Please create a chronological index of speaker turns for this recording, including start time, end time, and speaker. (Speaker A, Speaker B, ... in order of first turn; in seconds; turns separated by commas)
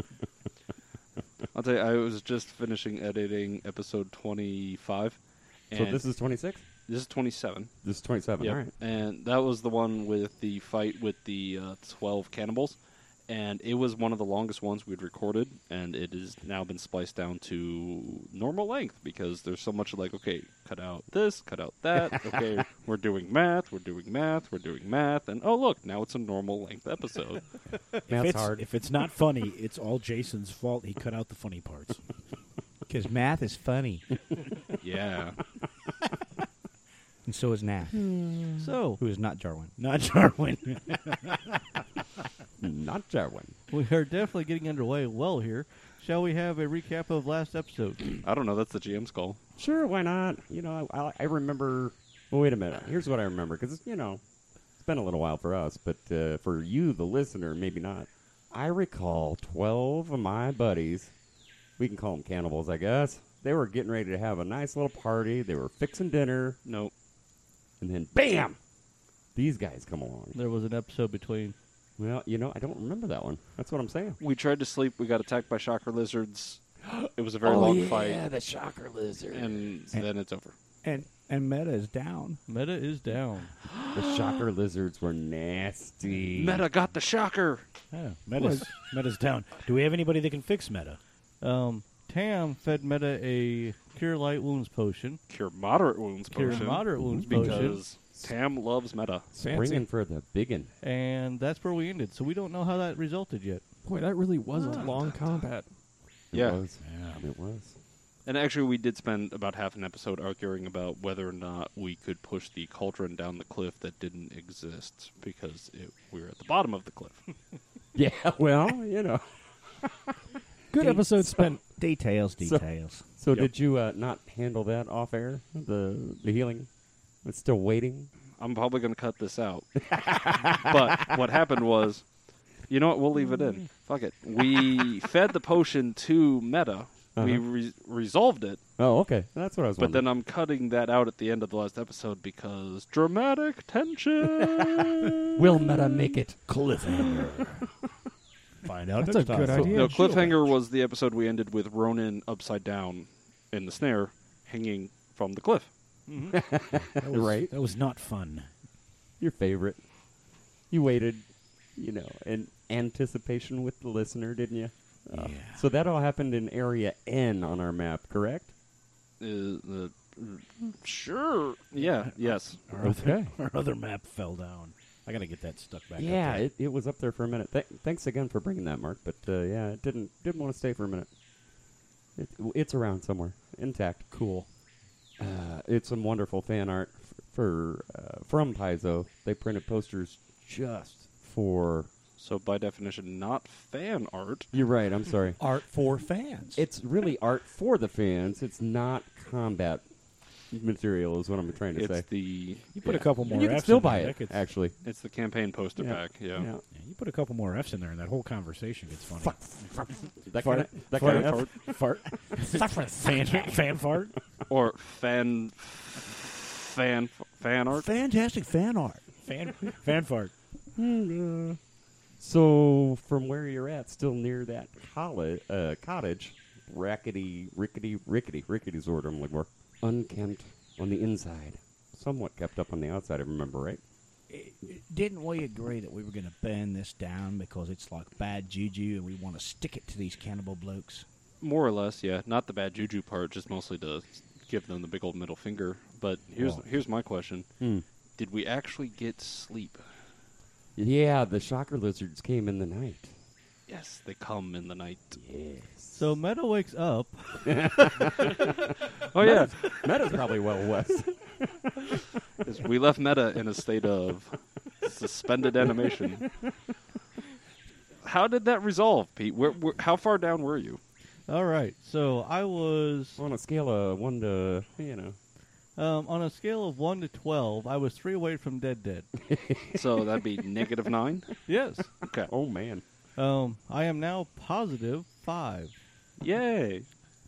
Speaker A: 1.5-27.5, Speaker B: 5.7-6.6, Speaker B: 7.8-8.7, Speaker B: 28.1-28.7, Speaker C: 28.1-32.0, Speaker D: 32.9-34.0, Speaker A: 34.8-35.4, Speaker D: 37.2-38.2, Speaker B: 38.0-38.6, Speaker E: 38.6-39.0, Speaker D: 39.0-39.7, Speaker C: 39.8-41.6, Speaker B: 42.6-43.6, Speaker E: 43.7-48.2, Speaker A: 48.2-49.4, Speaker B: 49.6-61.2, Speaker B: 61.8-66.6, Speaker A: 66.6-66.9, Speaker B: 67.8-68.6, Speaker B: 69.3-70.4, Speaker E: 70.3-71.5, Speaker B: 72.0-74.2, Speaker A: 74.2-78.2, Speaker B: 77.4-79.7, Speaker A: 79.3-80.5, Speaker D: 80.8-82.4, Speaker E: 82.5-83.5, Speaker B: 83.9-86.6, Speaker A: 86.3-87.6, Speaker C: 87.9-91.0, Speaker E: 91.4-95.2, Speaker A: 95.3-99.3, Speaker E: 96.3-97.8, Speaker B: 98.1-98.5, Speaker F: 99.3-99.9, Speaker B: 99.3-100.7, Speaker E: 100.8-103.8, Speaker F: 103.8-105.7, Speaker A: 104.7-105.4, Speaker B: 106.3-107.8, Speaker A: 106.3-106.7, Speaker C: 106.8-107.2, Speaker A: 108.2-117.3, Speaker B: 117.9-119.2, Speaker B: 120.7-121.5, Speaker F: 120.7-121.6, Speaker D: 120.8-123.1, Speaker B: 122.4-128.1, Speaker A: 128.4-129.9, Speaker B: 129.9-131.1, Speaker A: 130.5-138.6, Speaker B: 137.2-137.4, Speaker B: 138.8-140.0, Speaker A: 139.8-145.1, Speaker B: 145.3-147.7, Speaker C: 146.6-147.3, Speaker D: 148.6-149.9, Speaker F: 149.0-150.2, Speaker A: 149.7-156.0, Speaker E: 156.1-156.4, Speaker B: 156.3-157.5, Speaker C: 156.8-158.6, Speaker B: 159.2-160.0, Speaker B: 160.7-168.5, Speaker C: 165.1-165.7, Speaker A: 169.2-172.6, Speaker C: 172.0-176.5, Speaker B: 172.8-173.3, Speaker B: 176.0-181.2, Speaker B: 182.2-184.6, Speaker B: 185.2-191.9, Speaker A: 192.2-194.5, Speaker B: 194.5-195.4, Speaker D: 195.4-196.7, Speaker B: 196.5-204.9, Speaker A: 201.7-202.8, Speaker C: 202.7-204.5, Speaker A: 204.8-206.5, Speaker B: 205.8-206.7, Speaker C: 206.7-214.2, Speaker B: 209.1-212.4, Speaker A: 210.9-211.6, Speaker B: 213.1-213.5, Speaker A: 214.5-217.9, Speaker D: 217.7-219.0, Speaker C: 219.2-220.3, Speaker B: 220.7-221.6, Speaker B: 222.2-233.8, Speaker D: 234.3-241.1, Speaker A: 241.4-247.5, Speaker D: 246.4-246.7, Speaker B: 247.6-247.8, Speaker A: 248.1-249.8, Speaker B: 250.7-253.1, Speaker A: 253.7-255.2, Speaker C: 255.2-255.8, Speaker E: 255.9-258.1, Speaker B: 257.4-258.5, Speaker B: 259.0-262.0, Speaker A: 259.1-259.9, Speaker A: 262.4-266.3, Speaker A: 268.0-270.8, Speaker E: 271.3-273.2, Speaker B: 273.2-275.2, Speaker E: 275.8-279.1, Speaker B: 279.3-279.8, Speaker A: 279.7-281.4, Speaker E: 281.5-281.9, Speaker A: 282.0-282.3, Speaker B: 282.3-282.8, Speaker E: 283.1-285.8, Speaker A: 286.2-287.0